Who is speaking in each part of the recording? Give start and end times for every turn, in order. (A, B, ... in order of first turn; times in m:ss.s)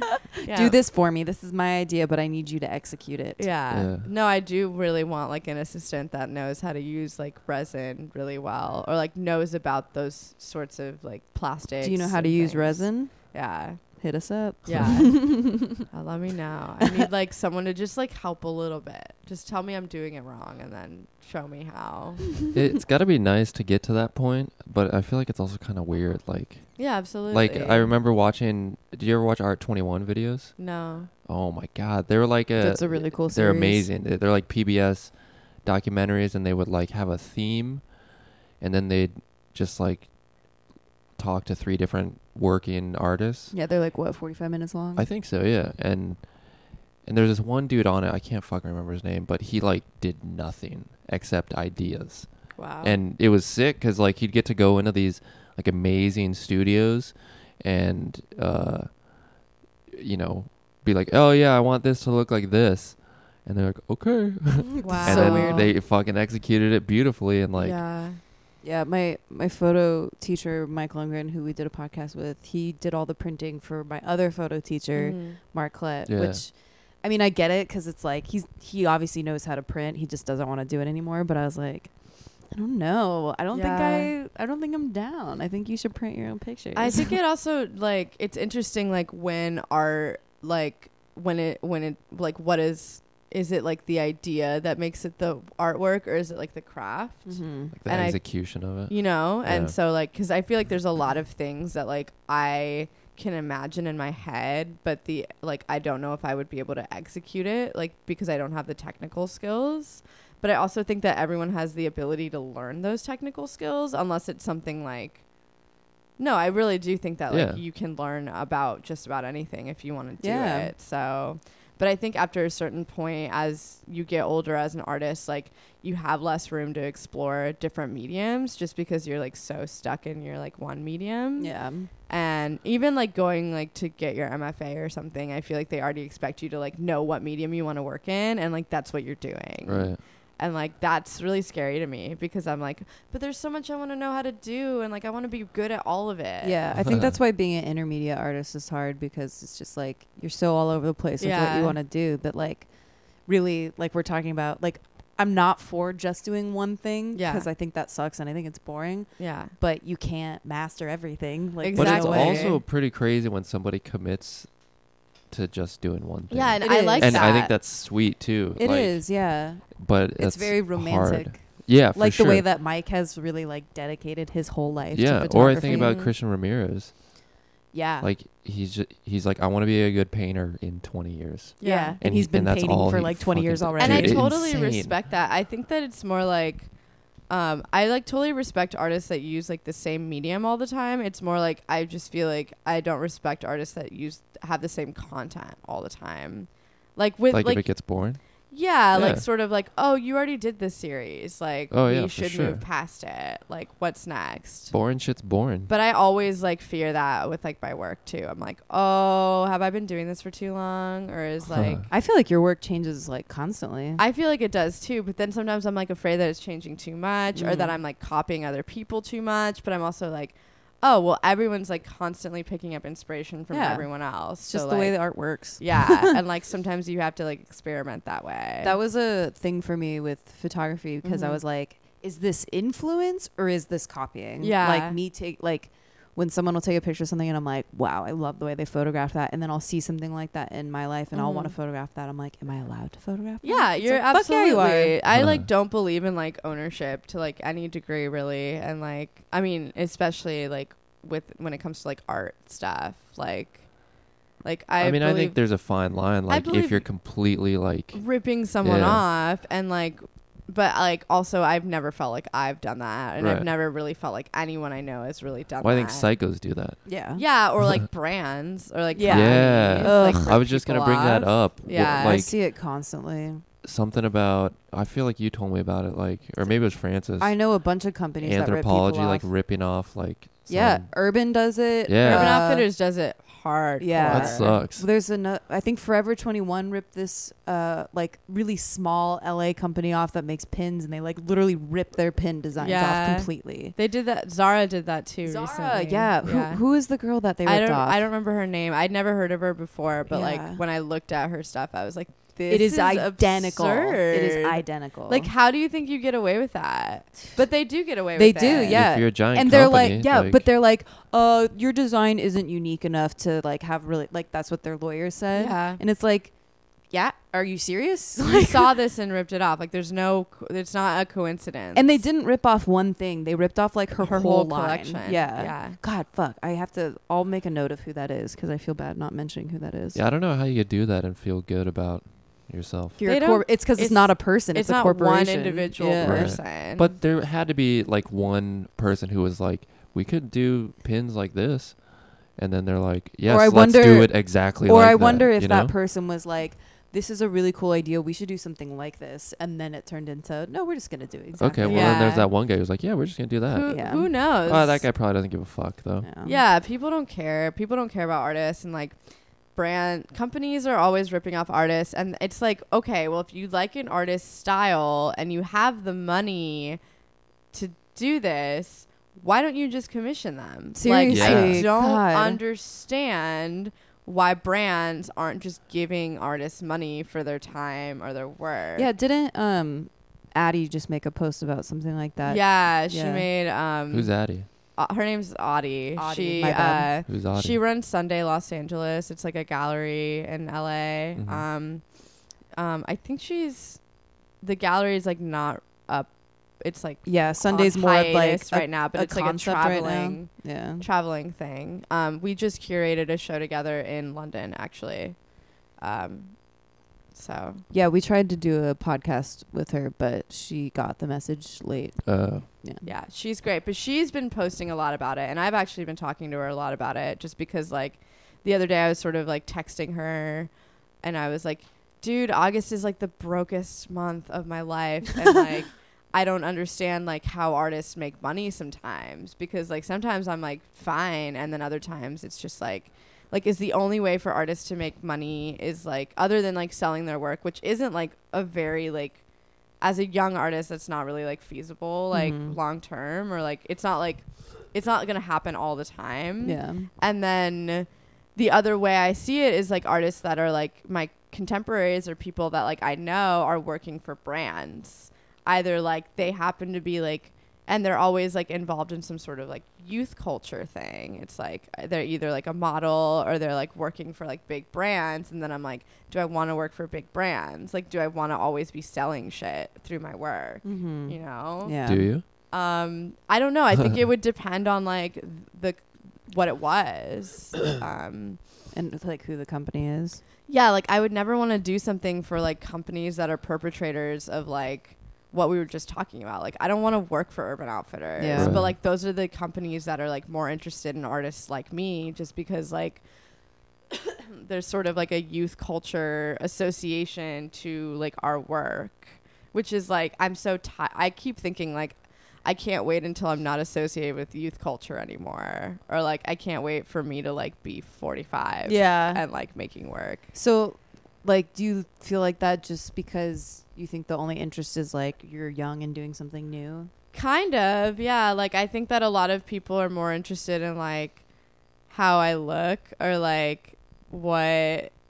0:00.4-0:00.8 A
0:00.4-0:03.5 B
0:03.4-0:14.1 A
0:03.7-0:04.1 C
0:11.8-0:15.8 B
0:14.6-0:22.4 A
0:22.5-0:30.7 C
0:26.8-0:27.9 A
0:30.6-0:31.1 A
0:31.2-0:38.0 C
0:32.6-0:33.9 B
0:38.6-0:40.2 C
0:41.2-0:43.5 C
0:43.5-0:45.0 B
0:45.0-1:07.8 C
0:52.5-0:53.0 A
1:04.7-1:05.7 B
1:04.8-1:05.7 A
1:07.6-1:08.2 A
1:08.6-1:27.2 B
1:14.9-1:15.4 A
1:16.1-1:16.4 C
1:23.5-1:24.1 A
1:26.7-1:55.3 A
1:37.2-1:37.7 B
1:37.7-1:39.7 C
1:56.2-2:26.8 A
1:57.3-1:57.6 C
2:00.2-2:00.7 B
2:11.4-2:11.9 B
2:19.6-2:20.0 C
2:26.4-2:42.6 B
2:26.8-2:27.2 C
2:31.2-2:31.8 A
2:37.1-2:37.5 A
2:39.2-2:39.5 A
2:41.6-2:42.6 A
2:41.7-2:44.6 C
2:45.3-2:52.4 C
2:46.3-2:47.5 A
2:46.6-2:47.5 B
2:48.6-2:55.9 B
2:54.9-2:57.0 C
2:55.6-2:56.1 A
2:57.7-2:58.1 B
2:58.0-3:05.0 C
3:01.6-3:02.0 A
3:01.6-3:04.5 B
3:03.8-3:24.8 A
3:17.3-3:18.2 C
3:18.9-3:19.2 C
3:21.7-3:22.6 C
3:24.7-3:25.7 C
3:25.7-3:31.9 A
3:31.5-3:31.8 C
3:31.9-3:34.0 B
3:34.0-3:48.8 A
3:37.3-3:37.8 B
3:43.5-3:46.2 B
3:48.6-4:05.0 B
3:51.0-3:51.4 A
3:54.4-3:55.0 A
4:01.1-4:01.5 A
4:03.4-4:15.4 A
4:05.1-4:05.5 C
4:14.8-4:19.0 C
4:16.3-4:16.9 A
4:17.9-4:26.1 A
4:23.2-4:23.5 C
4:25.6-4:26.8 C
4:26.8-4:27.2 B
4:27.2-4:32.3 A
4:28.9-4:30.4 B
4:29.1-4:32.3 C
4:31.9-4:33.4 B
4:33.6-4:37.4 C
4:37.2-4:39.3 B
4:38.2-4:40.9 C
4:40.5-4:42.7 B
4:41.9-4:42.4 C
4:42.0-4:44.6 A
4:43.8-4:53.7 B
4:44.0-4:44.8 C
4:52.6-4:56.7 A
4:55.2-4:58.0 B
4:57.4-5:08.8 A
5:00.1-5:00.6 B
5:02.4-5:05.3 B
5:08.1-5:18.8 B
5:08.6-5:10.5 C
5:15.3-5:15.8 A
5:18.2-5:22.0 A
5:21.7-5:30.0 B
5:24.0-5:25.8 A
5:29.9-5:33.0 C
5:33.0-5:36.4 B
5:33.0-5:36.9 A
5:36.0-5:45.7 C
5:43.2-5:52.3 B
5:51.4-5:53.7 C
5:51.6-5:52.3 A
5:53.5-5:54.9 A
5:53.7-5:54.1 B
5:54.3-5:56.1 C
5:56.0-5:56.4 B
5:56.2-5:59.0 A
5:59.5-6:06.8 A
6:07.5-6:18.9 A
6:10.7-6:12.4 B
6:11.1-6:11.7 C
6:18.8-6:23.3 B
6:22.2-6:31.8 A
6:23.9-6:24.5 C
6:26.0-6:26.9 B
6:27.0-6:27.6 C
6:31.2-6:31.4 C
6:32.5-6:33.8 A
6:34.4-6:46.5 A
6:37.0-6:40.8 B
6:47.1-6:47.6 A
6:47.7-6:52.8 B
6:52.0-6:52.5 C
6:52.8-7:19.2 A
7:19.8-7:58.4 A
7:22.1-7:22.6 B
7:26.4-7:26.9 B
7:50.6-7:52.1 B
7:51.8-7:52.2 C
7:58.7-8:00.2 B
8:00.5-8:13.0 A
8:08.2-8:08.6 B
8:08.3-8:08.7 C
8:14.1-8:30.2 A
8:28.6-8:29.2 B
8:30.3-8:36.9 B
8:37.1-8:41.2 A
8:41.9-8:44.9 A